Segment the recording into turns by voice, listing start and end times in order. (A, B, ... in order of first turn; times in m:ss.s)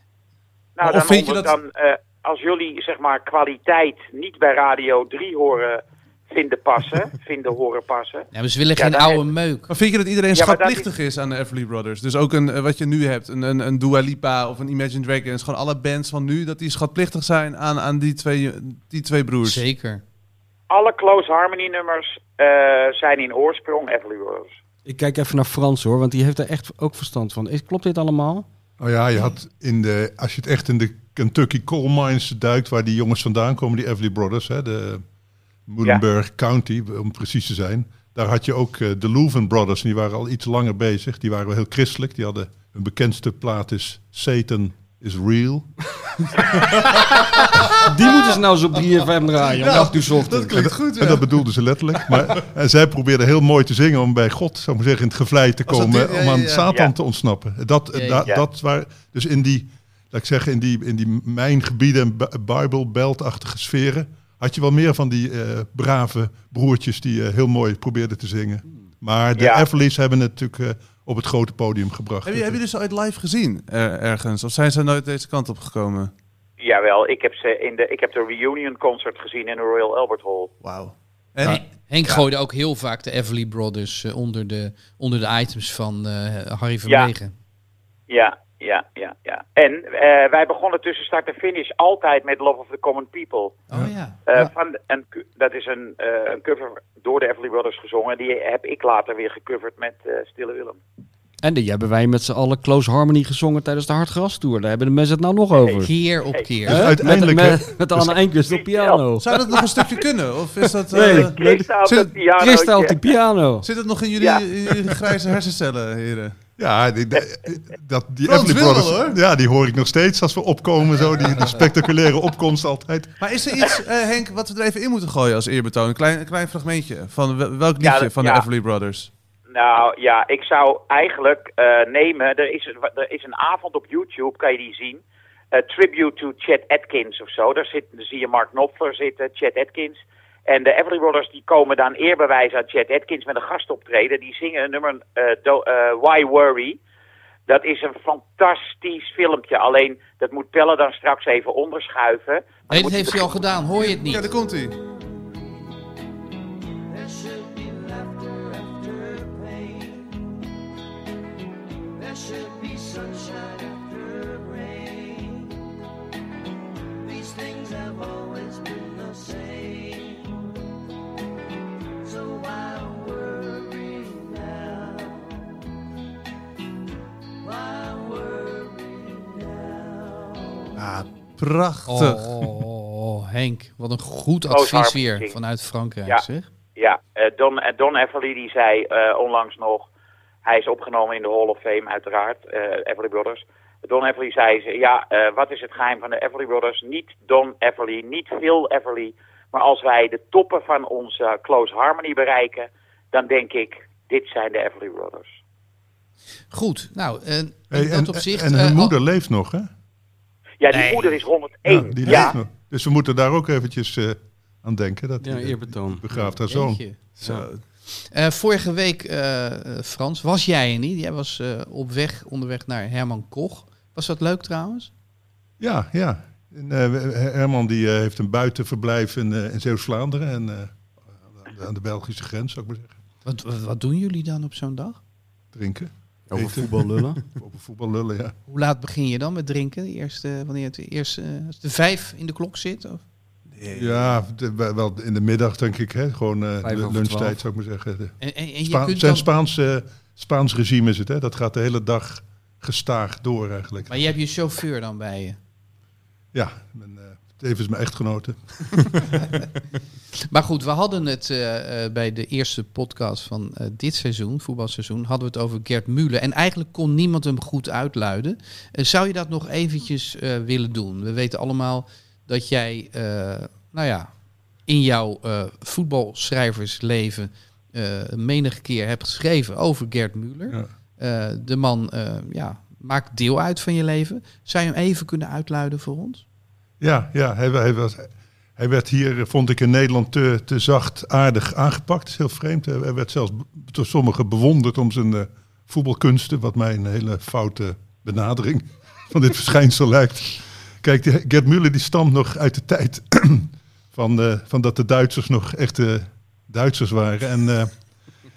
0:00.8-0:09.2 A
0:00.8-0:01.5 B
0:08.3-0:09.7 C
0:09.7-0:19.6 B
0:10.3-0:10.9 A
0:19.4-0:20.0 C
0:20.7-0:24.5 A
0:24.9-0:28.5 D
0:28.8-0:35.0 E
0:35.7-0:45.8 E
0:47.8-0:50.7 D
0:49.4-0:51.3 B
0:50.5-1:12.6 E
0:52.0-0:52.4 B
0:55.7-0:56.7 B
0:57.9-0:58.3 C
1:09.4-1:09.6 A
1:12.2-1:16.1 B
1:16.6-1:20.5 A
1:20.6-1:22.2 B
1:21.4-1:27.3 C
1:28.1-1:33.6 A
1:33.7-1:34.5 C
1:34.3-1:40.8 A
1:41.4-1:45.9 D
1:45.8-1:46.9 C
1:46.7-1:48.1 E
1:46.7-1:49.6 D
1:48.5-1:49.0 A
1:49.2-1:52.1 B
1:50.9-1:51.7 D
1:51.0-1:53.0 A
1:52.3-1:53.7 D
1:53.6-1:56.4 B
1:56.6-2:03.2 E
1:58.3-1:59.2 B
2:03.2-2:09.1 B
2:07.8-2:08.4 A
2:09.5-2:15.0 A
2:15.5-2:26.8 A
2:27.5-2:33.4 A
2:32.7-2:34.3 C
2:33.8-2:34.8 B
2:36.9-2:40.4 F
2:42.0-2:45.7 F
2:47.0-2:50.6 F
2:52.0-2:55.6 F
2:57.4-3:00.8 F
3:00.8-3:02.6 B
3:01.9-3:06.5 C
3:04.5-3:05.4 A
3:06.8-3:09.9 A
3:10.4-3:25.3 A
3:26.5-3:28.9 C
3:27.7-3:29.7 E
3:30.6-3:32.4 A
3:30.7-3:31.2 C
3:31.7-3:37.5 E
3:35.2-3:36.0 D
3:36.1-3:37.0 C
3:37.2-3:37.6 B
3:37.8-3:44.9 C
3:45.6-3:53.0 E
3:53.2-3:55.0 C
3:55.5-3:58.4 E
3:56.3-3:57.2 D
3:58.5-4:03.0 C
4:03.5-4:04.1 B
4:03.7-4:14.0 E
4:06.6-4:07.4 D
4:08.2-4:09.3 C
4:13.9-4:15.4 C
4:16.3-4:19.0 E
4:20.3-4:34.1 C
4:34.7-4:46.2 C
4:46.8-5:07.9 E